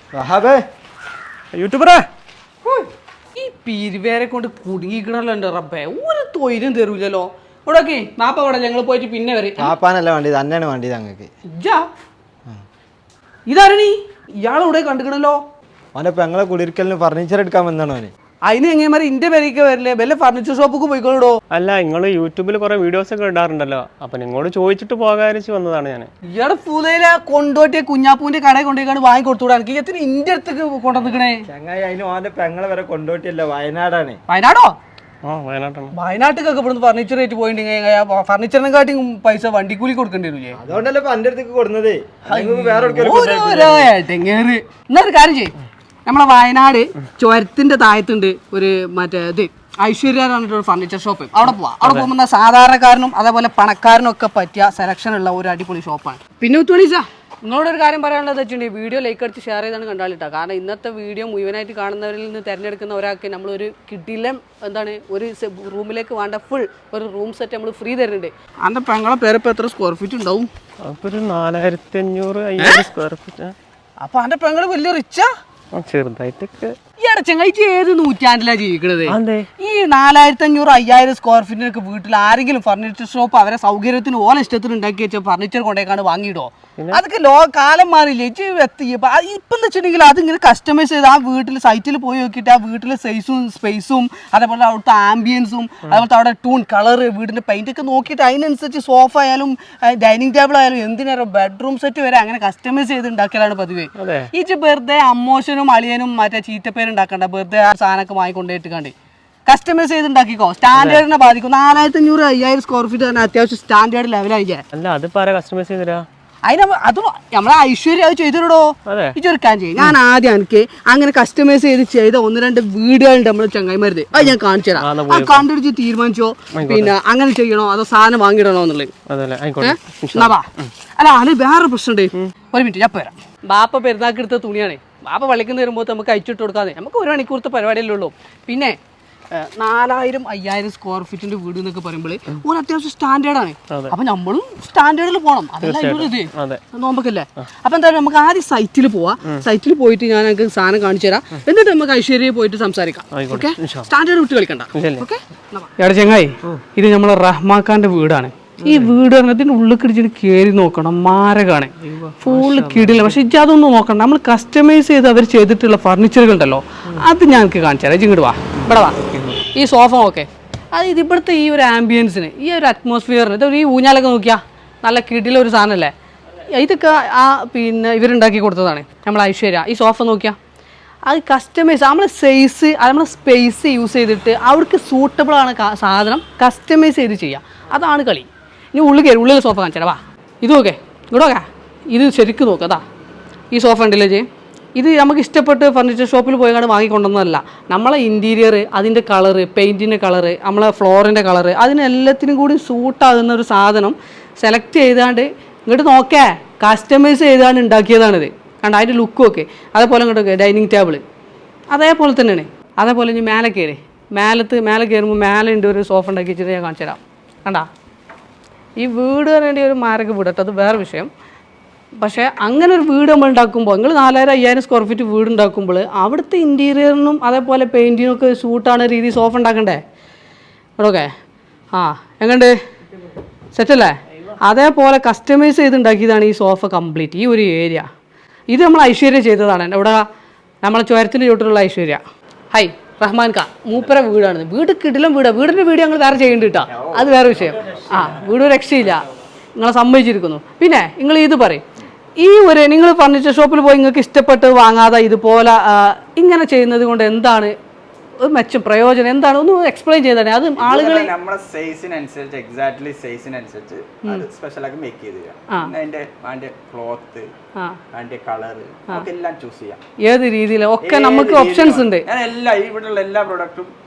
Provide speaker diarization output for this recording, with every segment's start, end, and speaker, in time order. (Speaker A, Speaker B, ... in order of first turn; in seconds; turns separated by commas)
Speaker A: 0.1-0.6, Speaker B: 1.6-2.1, Speaker C: 3.4-9.7, Speaker A: 9.6-11.3, Speaker C: 11.5-11.9, Speaker C: 13.5-15.4, Speaker A: 15.9-18.1, Speaker C: 18.4-21.4, Speaker B: 21.5-26.1, Speaker C: 26.3-31.4, Speaker A: 31.5-34.2, Speaker C: 34.3-34.8, Speaker B: 35.2-35.9, Speaker C: 35.9-40.6, Speaker A: 40.6-43.9, Speaker C: 42.2-70.5, Speaker B: 70.8-73.5, Speaker C: 72.6-72.8, Speaker C: 74.0-75.3, Speaker B: 75.7-76.8, Speaker C: 77.0-108.9, Speaker B: 79.1-79.5, Speaker B: 104.0-104.3, Speaker C: 109.5-114.6, Speaker B: 114.8-116.0, Speaker C: 116.4-128.9, Speaker B: 118.9-119.2, Speaker B: 124.8-125.5, Speaker B: 126.5-126.9, Speaker B: 129.1-130.7, Speaker C: 129.6-138.8, Speaker C: 139.3-175.9, Speaker B: 145.6-146.6, Speaker B: 153.1-153.9, Speaker B: 154.7-155.0, Speaker B: 161.8-163.1, Speaker C: 176.5-180.4, Speaker C: 181.1-192.8, Speaker C: 193.5-211.0, Speaker C: 211.7-217.7, Speaker C: 218.8-221.1, Speaker C: 222.0-229.8, Speaker C: 230.8-231.1, Speaker C: 231.7-232.5, Speaker C: 233.5-237.9, Speaker C: 238.5-240.0, Speaker C: 240.6-249.1, Speaker D: 246.7-248.4, Speaker C: 249.6-251.6, Speaker C: 252.2-257.5, Speaker C: 258.2-261.1, Speaker D: 260.6-267.3, Speaker D: 267.9-269.8, Speaker C: 270.0-272.1, Speaker D: 270.8-273.7